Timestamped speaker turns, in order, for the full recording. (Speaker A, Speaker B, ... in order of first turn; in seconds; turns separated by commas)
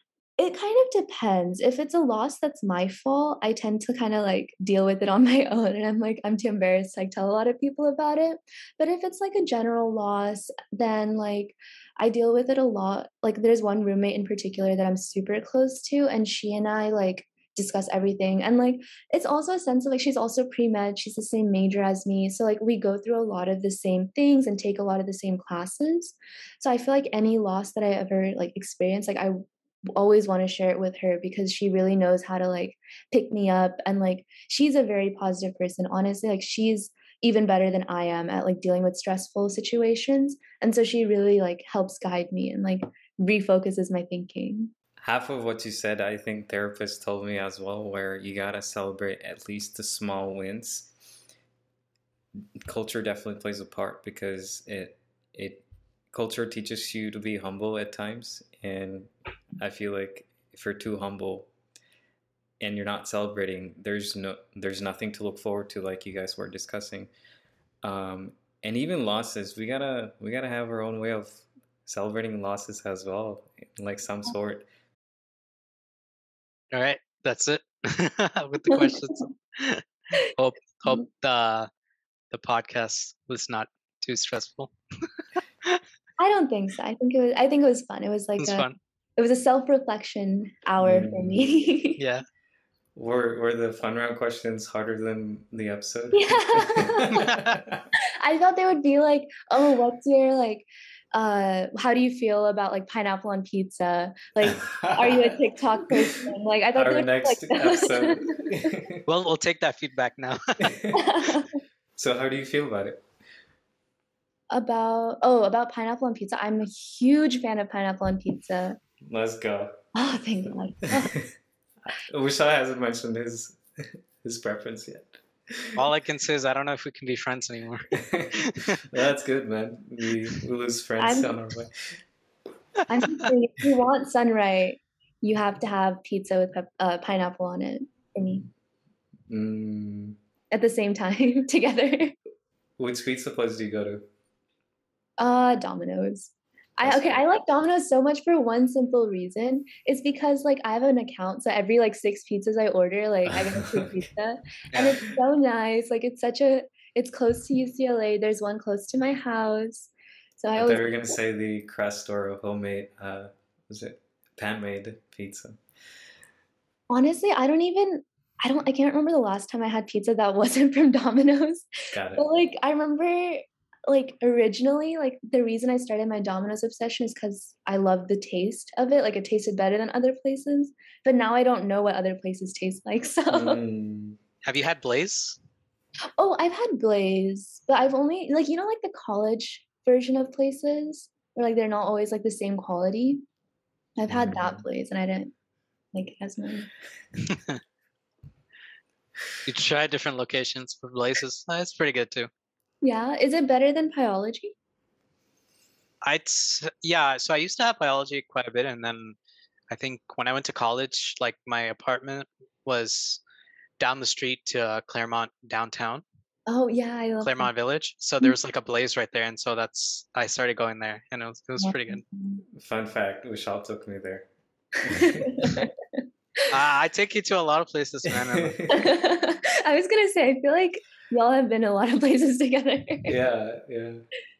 Speaker A: 0.4-29.4, Speaker A: 29.9-44.7, Speaker B: 45.0-50.9, Speaker B: 52.7-61.5, Speaker B: 62.6-67.1, Speaker B: 67.8-74.7, Speaker C: 76.7-81.7, Speaker C: 82.3-84.7, Speaker A: 86.2-88.7, Speaker C: 88.4-88.8, Speaker A: 89.2-92.0, Speaker B: 90.8-91.5, Speaker C: 92.0-92.2, Speaker B: 92.9-97.8, Speaker A: 96.1-97.2, Speaker C: 97.1-97.5, Speaker A: 98.2-108.7, Speaker B: 104.4-105.4, Speaker B: 106.7-109.0, Speaker C: 109.0-110.6, Speaker B: 110.6-111.1, Speaker A: 110.9-111.6, Speaker B: 112.0-113.0, Speaker A: 114.5-118.8, Speaker B: 119.0-119.8, Speaker A: 119.9-121.1, Speaker B: 121.8-125.8, Speaker C: 125.8-128.7, Speaker B: 128.8-131.7, Speaker A: 131.0-131.3, Speaker A: 132.9-138.5, Speaker B: 139.3-140.2, Speaker A: 140.5-142.1, Speaker B: 142.8-144.0, Speaker A: 145.2-161.1, Speaker B: 146.8-147.2, Speaker C: 154.7-155.0, Speaker B: 160.6-165.6, Speaker A: 166.9-183.6, Speaker B: 171.9-172.2, Speaker B: 183.3-184.2, Speaker C: 184.4-185.4, Speaker A: 186.2-193.2, Speaker A: 194.0-195.3, Speaker B: 194.1-194.6, Speaker A: 195.9-196.7, Speaker C: 197.3-197.6, Speaker C: 199.4-202.3, Speaker A: 202.8-204.5, Speaker C: 206.0-209.2, Speaker C: 209.7-213.2, Speaker C: 213.8-216.0, Speaker A: 216.5-217.5, Speaker C: 217.2-222.0, Speaker A: 221.6-222.4, Speaker B: 222.6-224.3, Speaker B: 224.8-225.6, Speaker A: 225.0-225.7, Speaker C: 226.5-228.7, Speaker A: 228.7-233.2, Speaker B: 233.0-234.0